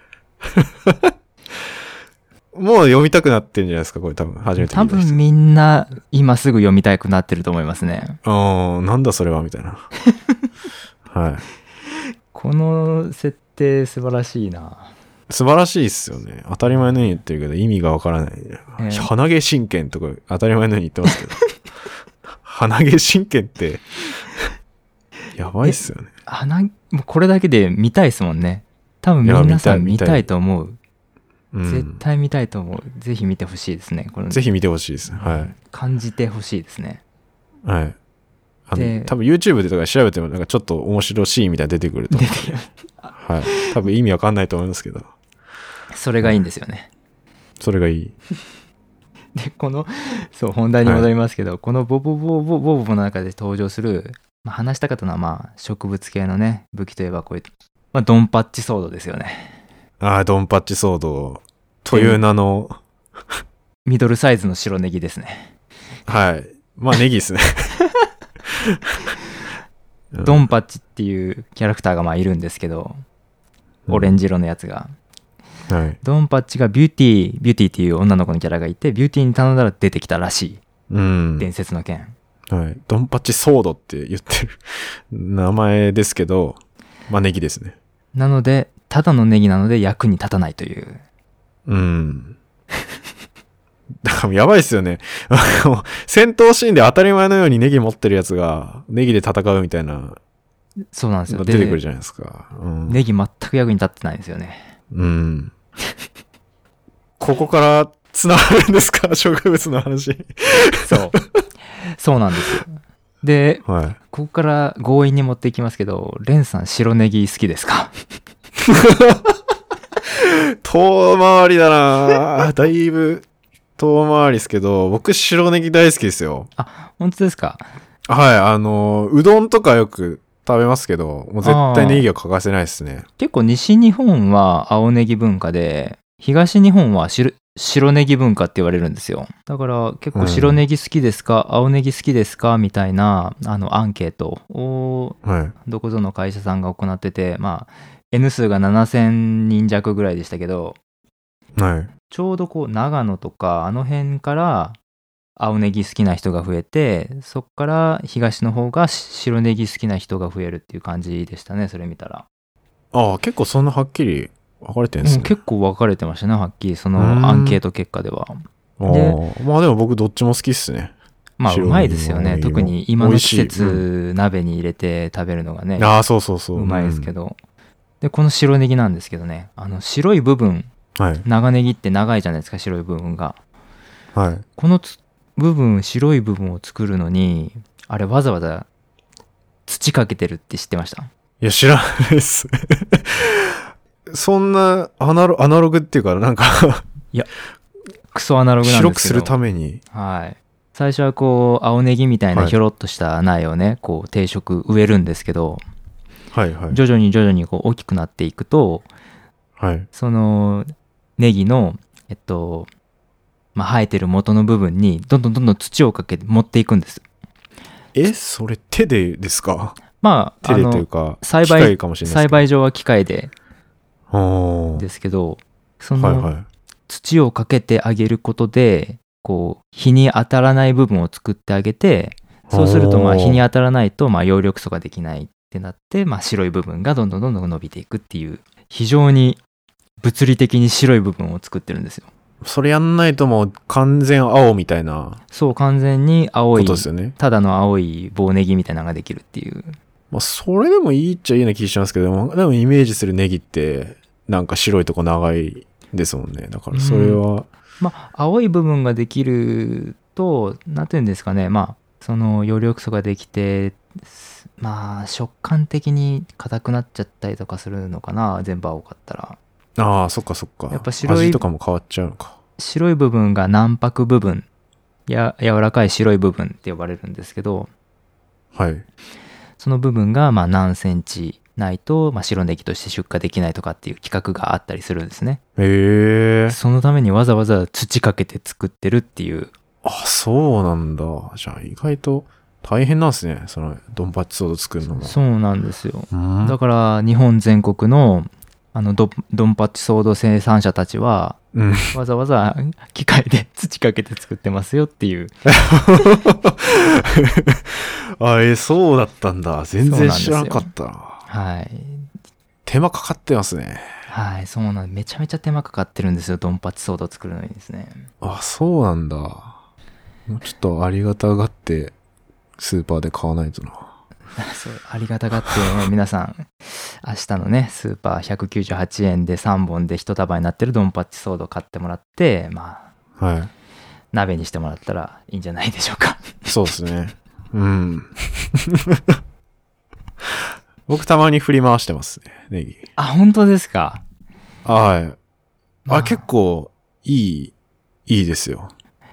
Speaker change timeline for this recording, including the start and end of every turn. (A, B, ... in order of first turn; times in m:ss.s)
0:00.5-0:01.1 A
0:02.5-0:05.2 A
0:04.6-0:08.2 B
0:08.2-0:09.9 A
0:11.1-0:11.4 A
0:12.3-0:14.9 B
0:15.3-0:21.4 A
0:18.8-0:19.1 B
0:22.4-0:23.9 A
0:25.4-0:26.1 A
0:25.6-0:30.8 B
0:29.2-0:30.2 A
0:31.5-0:32.0 A
0:31.6-0:34.4 B
0:34.3-0:35.5 A
0:35.1-0:37.0 B
0:37.6-0:38.0 A
0:38.7-0:42.5 A
0:38.7-0:39.1 B
0:42.1-0:43.7 B
0:43.1-0:45.1 A
0:45.9-0:46.9 B
0:47.6-0:48.1 A
0:49.4-0:59.6 B
1:00.0-1:02.8 A
1:01.9-1:02.2 B
1:03.8-1:05.5 B
1:06.1-1:07.7 A
1:08.6-1:09.0 A
1:10.1-1:10.5 A
1:10.2-1:13.0 B
1:13.9-1:14.2 A
1:13.9-1:14.9 B
1:15.7-1:16.0 A
1:16.0-1:20.6 B
1:20.9-1:21.5 A
1:21.4-1:22.1 B
1:22.5-1:27.8 A
1:28.1-1:31.0 B
1:31.6-1:32.4 A
1:34.0-1:40.2 A
1:40.9-1:41.8 B
1:41.3-1:43.0 A
1:42.9-1:44.7 B
1:44.9-1:45.5 A
1:47.2-1:51.2 A
1:50.8-1:51.2 B
1:51.8-1:57.9 B
1:53.6-1:54.0 A
1:58.6-1:59.4 A
2:00.1-2:03.2 A
2:03.8-2:06.5 A
2:06.6-2:07.6 B
2:08.1-2:13.0 A
2:11.4-2:12.1 B
2:13.2-2:30.8 B
2:20.1-2:20.6 A
2:25.2-2:25.5 A
2:31.6-2:31.9 A
2:32.1-2:34.8 B
2:35.4-2:42.2 B
2:42.9-2:45.3 A
2:45.0-2:49.2 B
2:47.0-2:47.6 A
2:48.8-2:50.9 A
2:51.4-2:55.9 B
2:51.5-2:53.8 A
2:55.8-2:57.1 A
2:56.5-2:57.4 B
2:58.0-3:00.7 B
3:01.0-3:01.2 A
3:01.2-3:03.4 B
3:04.1-3:04.4 A
3:04.6-3:08.7 B
3:09.7-3:11.1 B
3:11.4-3:16.8 A
3:18.1-3:19.3 B
3:18.6-3:19.8 A
3:19.9-3:25.6 B
3:26.3-3:26.8 A
3:26.7-3:28.9 B
3:29.6-3:29.9 A
3:29.9-3:32.7 B
3:33.5-3:37.0 B
3:37.9-3:39.8 A
3:40.0-3:43.3 B
3:40.4-3:42.4 A
3:44.1-3:44.8 A
3:44.8-3:46.3 B
3:46.0-3:46.4 A
3:46.9-3:59.4 B
3:52.5-3:53.4 A
4:00.0-4:02.1 B
4:02.4-4:05.2 A
4:05.3-4:09.8 B
4:06.5-4:07.2 A
4:10.1-4:17.5 A
4:16.7-4:17.2 B
4:17.8-4:29.4 B
4:29.8-4:32.3 A
4:30.7-4:31.4 B
4:32.6-4:34.4 B
4:35.1-4:37.7 B
4:38.5-4:38.8 A
4:39.6-4:45.4 B
4:45.6-4:46.6 A
4:46.5-4:49.5 B
4:49.8-4:55.2 A
4:54.8-5:01.4 B
4:56.1-4:56.6 A
5:01.5-5:01.9 A
5:01.9-5:05.3 B
5:05.4-5:11.2 A
5:09.8-5:10.7 B
5:11.3-5:12.1 B
5:12.6-5:13.9 A
5:14.1-5:18.1 B
5:18.2-5:19.5 A
5:20.3-5:21.9 A
5:22.6-5:23.9 A
5:24.4-5:32.9 B
5:33.2-5:33.5 A
5:34.1-5:36.4 B
5:36.5-5:39.2 A
5:40.2-5:42.8 A
5:43.0-5:44.0 B
5:44.6-5:45.2 A
5:45.8-5:46.2 B
5:45.9-5:47.5 A
5:48.1-5:48.7 A